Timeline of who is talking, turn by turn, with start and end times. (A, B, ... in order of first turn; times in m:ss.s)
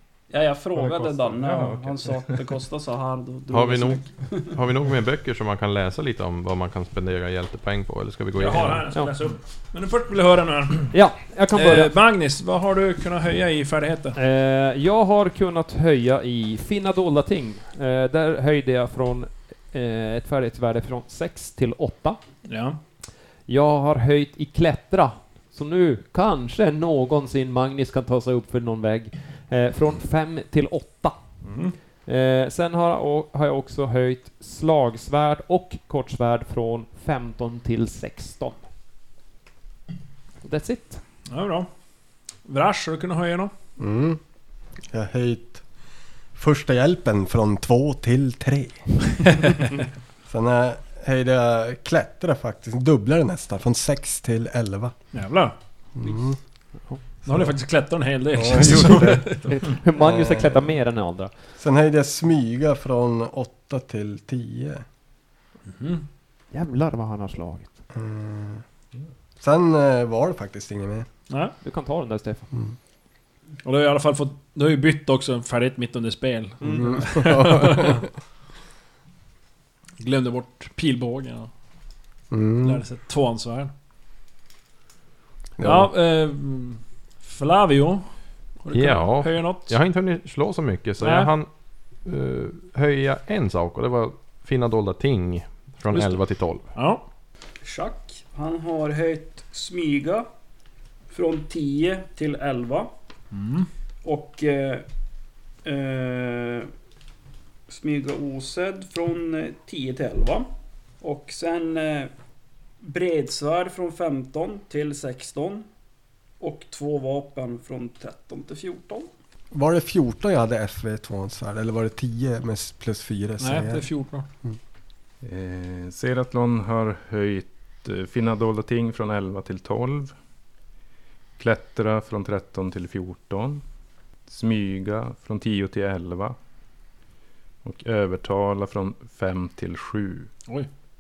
0:00.3-0:04.6 A
0:00.8-0:02.4 B
0:03.5-0:08.9 C
0:08.4-0:10.9 D
0:10.9-0:11.9 E
0:11.5-0:14.2 D
0:14.2-0:22.2 E
0:22.4-0:22.8 D
0:23.5-0:31.2 E
0:31.4-0:31.8 D
0:32.1-0:38.6 E
0:40.4-0:41.0 E
0:41.3-0:41.7 D
0:42.4-0:43.5 D
0:43.8-0:44.2 F
0:44.9-0:45.7 F
0:46.3-0:49.2 F
0:50.3-0:55.0 F
0:55.1-0:55.5 D
0:56.0-0:56.4 F
0:57.2-0:57.5 F
0:57.3-0:59.5 D
0:58.3-1:00.7 F
0:59.6-1:01.3 E
1:01.6-1:04.8 F
1:05.7-1:06.0 D
1:06.5-1:07.7 E
1:07.9-1:08.6 F
1:09.4-1:11.1 F
1:11.3-1:11.6 D
1:11.6-1:12.5 E
1:13.6-1:18.0 D
1:16.6-1:18.0 F
1:20.0-1:21.5 D
1:22.3-1:22.8 F
1:22.6-1:23.7 D
1:25.6-1:25.9 F
1:25.6-1:28.1 D
1:28.6-1:29.8 D
1:28.7-1:31.5 C
1:31.0-1:31.3 D
1:32.0-1:36.7 C
1:35.9-1:36.2 D
1:36.7-1:37.0 D
1:37.6-1:40.3 A
1:41.1-1:42.9 A
1:43.3-1:43.7 D
1:44.0-1:44.8 A
1:45.6-1:46.7 A
1:47.7-1:50.5 A
1:51.0-1:52.1 A
1:52.8-1:55.7 A
1:56.4-1:59.1 A
1:59.5-2:03.9 F
2:03.4-2:04.3 D
2:05.2-2:10.1 B
2:11.4-2:13.6 B
2:14.3-2:16.4 B
2:17.6-2:20.3 B